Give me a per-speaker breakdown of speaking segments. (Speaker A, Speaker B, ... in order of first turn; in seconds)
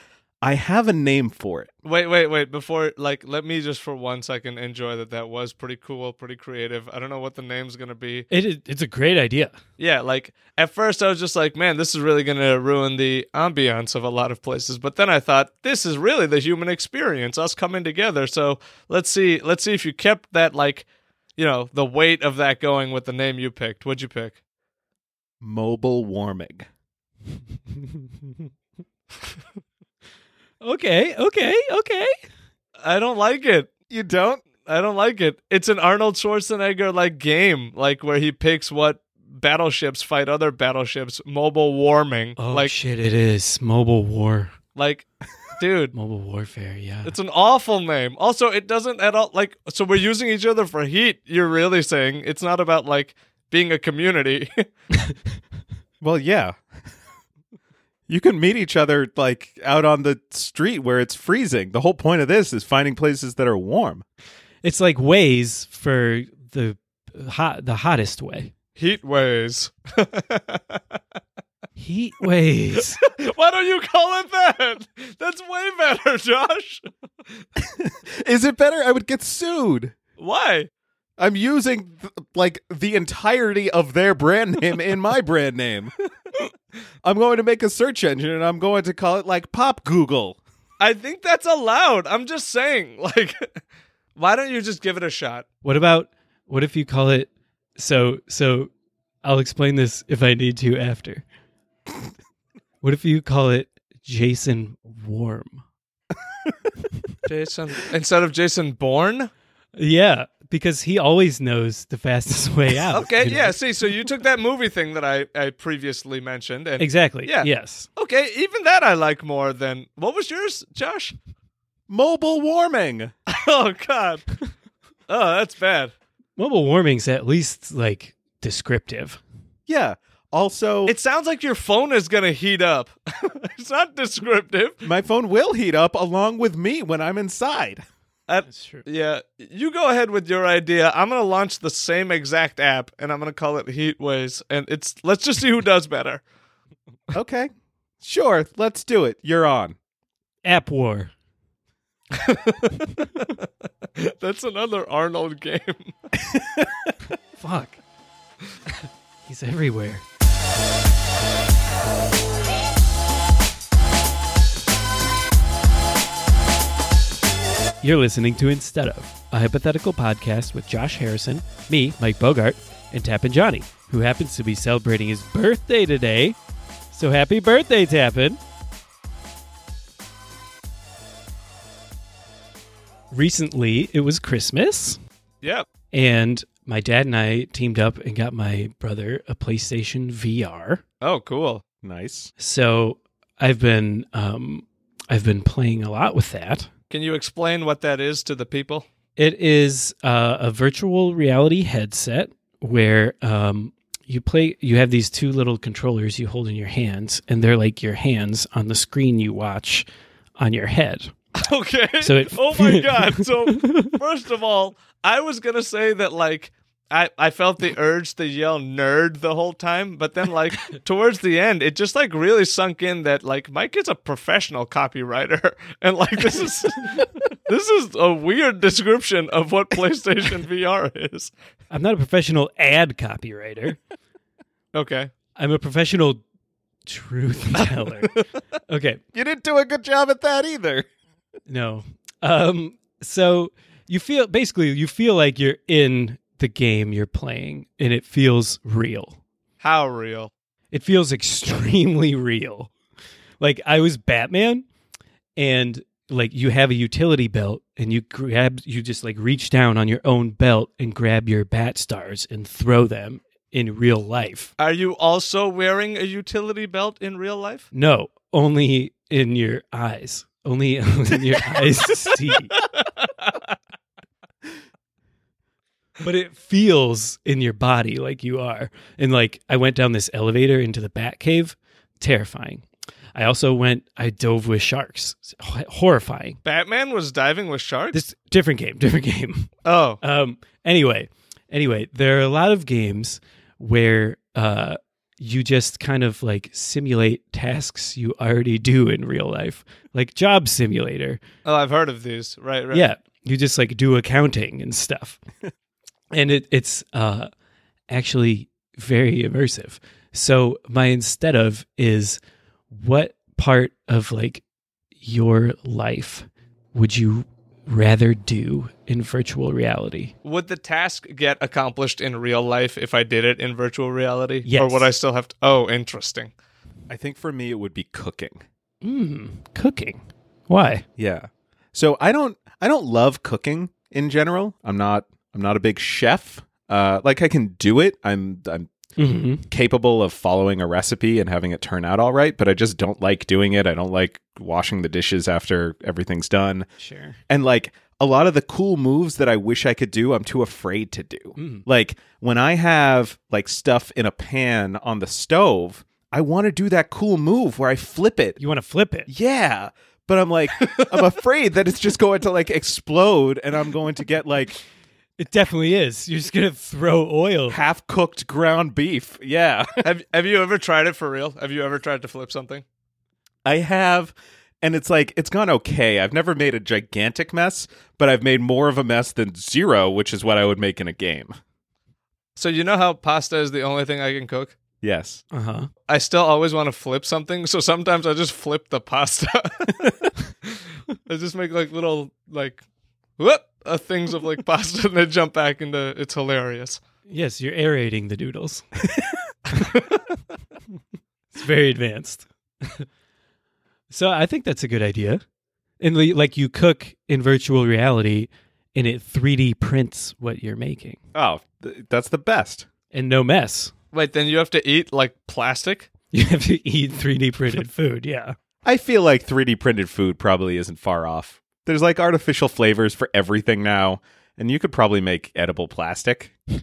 Speaker A: 0.4-1.7, 25.4-26.7, 33.9-34.4, 56.0-56.5, 58.1-64.0, 77.6-79.9, 81.2-85.9, 87.0-90.4, 121.9-123.1, 129.7-130.9, 134.8-137.8, 147.1-147.5, 148.0-149.8, 156.3-156.7, 191.8-192.3, 239.1-240.8, 326.9-328.4, 331.0-338.7, 339.5-346.7, 347.3-358.4, 359.1-364.6, 367.5-369.8, 373.4-381.3, 384.8-385.2, 389.7-389.9, 411.1-412.7, 418.6-426.3
Speaker B: 1.8-8.3, 9.8-20.8, 21.4-24.4, 32.8-33.7, 34.6-42.7, 44.7-45.0, 45.6-45.9, 47.0-54.6, 68.8-70.8, 72.8-77.4, 80.2-80.7, 90.8-93.5, 94.2-95.5, 107.2-109.3, 112.9-121.1, 123.3-124.3, 125.1-125.9, 130.9-134.8, 138.3-146.2, 152.1-155.9, 191.0-191.6, 196.9-198.8, 211.3-231.3, 234.7-235.1, 237.6-238.2, 249.6-250.3, 264.6-267.7, 272.6-273.4, 286.4-288.0, 289.6-290.0, 301.4-302.9, 320.2-326.3, 360.6-360.9, 369.8-372.6, 382.4-384.6, 385.9-389.8, 390.4-392.6, 393.2-396.8, 399.5-400.0, 413.9-415.9
Speaker C: 8.3-9.6, 27.7-28.3, 30.6-32.1, 42.4-44.6, 45.9-47.1, 64.6-68.5, 71.8-73.0, 95.6-98.7, 99.2-101.2, 102.8-105.6, 109.7-113.6, 116.8-117.9, 126.4-129.2, 138.5-138.8, 150.4-151.1, 157.4-157.8, 158.7-160.0, 167.8-176.4, 176.9-178.4, 183.1-185.0, 185.9-190.8, 192.4-196.7, 199.2-211.1, 212.0-214.0, 231.7-233.8, 235.3-236.2, 236.8-238.1, 238.7-239.0, 241.5-249.2, 250.7-252.7, 253.4-254.7, 255.4-264.5, 267.7-272.6, 276.0-286.4, 287.9-301.2, 302.7-305.2, 306.1-307.3, 307.9-312.2, 312.7-314.4, 315.0-320.1, 324.4-324.9, 328.8-330.8, 339.0-339.4, 346.8-347.2, 351.4-351.6, 358.4-359.1, 365.2-367.6, 385.3-385.7, 397.1-398.7, 401.3-402.9, 403.9-405.2, 405.8-411.0, 412.9-413.7, 416.1-418.4